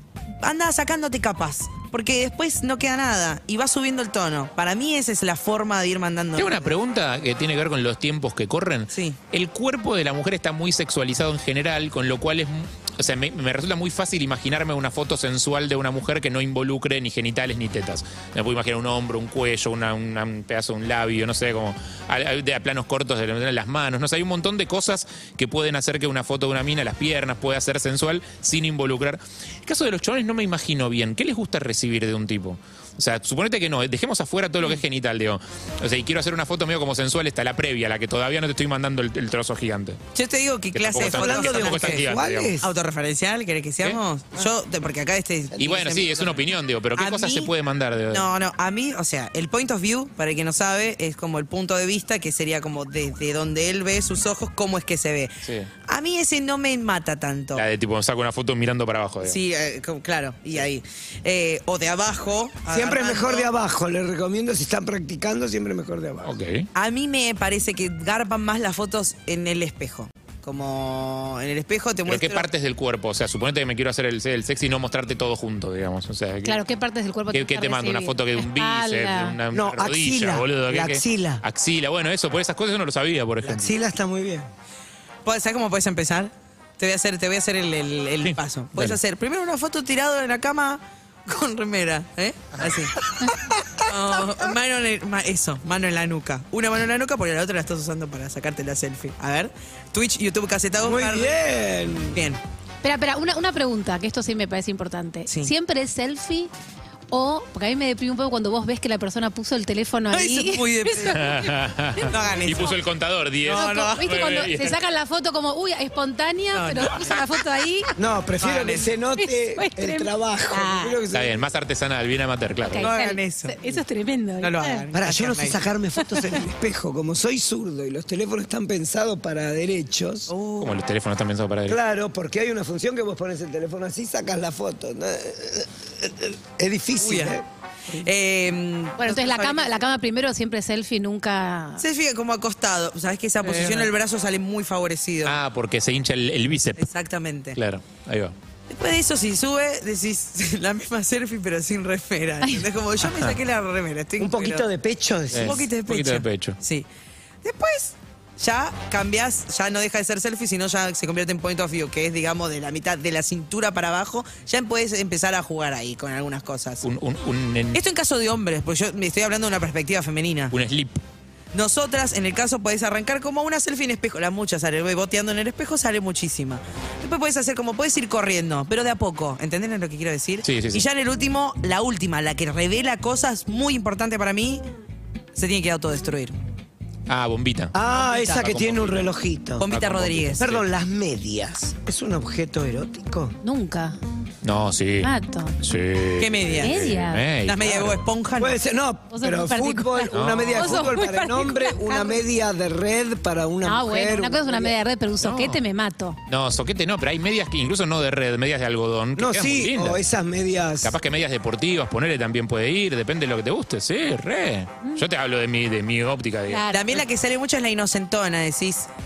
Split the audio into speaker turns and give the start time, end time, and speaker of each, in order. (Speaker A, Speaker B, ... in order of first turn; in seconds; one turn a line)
Speaker A: 0.4-6.8
Speaker B: 6.4-40.0
Speaker A: 8.9-9.2
Speaker A: 40.1-47.5
Speaker B: 40.7-42.5
Speaker C: 41.0-42.7
Speaker B: 45.6-48.2
Speaker A: 48.1-55.3
Speaker B: 55.4-55.7
Speaker A: 55.9-57.6
Speaker B: 57.6-59.4
Speaker A: 59.2-63.5
Speaker C: 62.7-66.4
Speaker B: 66.2-66.7
Speaker A: 66.8-72.5
Speaker B: 72.1-76.6
Speaker D: 76.4-79.4
Speaker B: 77.3-83.7
Speaker C: 79.5-81.4
Speaker C: 83.4-84.5
Speaker A: 85.2-93.0
Speaker B: 88.2-89.0
Speaker C: 93.2-93.6
Speaker A: 93.8-101.4
Speaker C: 100.8-102.2
Speaker A: 102.1-102.4
Speaker D: 102.8-106.5
Speaker A: 105.3-105.5
Speaker D: 107.1-112.7
Speaker A: 110.1-111.2
Speaker B: 111.1-114.8
Speaker A: 112.1-112.8
Speaker A: 113.5-114.5
Speaker D: 113.5-117.9
Speaker A: 116.5-117.2
Speaker C: 118.0-121.5
Speaker A: 118.4-118.9
Speaker D: 119.2-121.0
Speaker B: 121.1-122.9
Speaker D: 122.6-124.8
Speaker A: 122.8-123.8
Speaker A: 124.4-125.6
Speaker C: 125.0-130.3
Speaker D: 126.0-126.2
Speaker A: 130.3-130.8
Speaker B: 130.6-131.8
Speaker C: 131.7-137.4
Speaker A: 137.0-137.4
Speaker A: 138.0-139.9
Speaker D: 139.0-141.8
Speaker A: 141.8-145.4
Speaker B: 143.4-143.9
Speaker B: 145.3-146.8
Speaker A: 146.8-147.6
Speaker B: 147.6-148.3
Speaker A: 148.7-154.7
Speaker C: 154.2-155.7
Speaker B: 155.3-156.6
Speaker A: 155.4-156.9
Speaker A: 157.4-166.8
Speaker B: 166.8-167.8
Speaker A: 167.7-170.5
Speaker B: 170.5-171.0
Speaker A: 171.5-184.7
Speaker B: 180.4-180.8
Speaker A: 185.3-186.4
Speaker B: 187.1-187.7
Speaker C: 187.7-189.7
Speaker A: 187.9-189.1
Speaker A: 189.6-190.5
Speaker B: 189.8-190.6
Speaker C: 190.4-193.3
Speaker D: 193.4-194.0
Speaker B: 194.4-198.0
Speaker D: 195.0-195.6
Speaker A: 196.2-196.9
Speaker D: 196.6-197.3
Speaker A: 197.4-198.6
Speaker C: 198.4-204.8
Speaker D: 199.1-202.2
Speaker B: 200.2-200.6
Speaker D: 203.6-206.2
Speaker B: 205.2-205.6
Speaker B: 206.3-210.0
Speaker C: 209.2-210.9
Speaker B: 210.8-216.7
Speaker D: 216.5-217.0
Speaker A: 216.7-218.9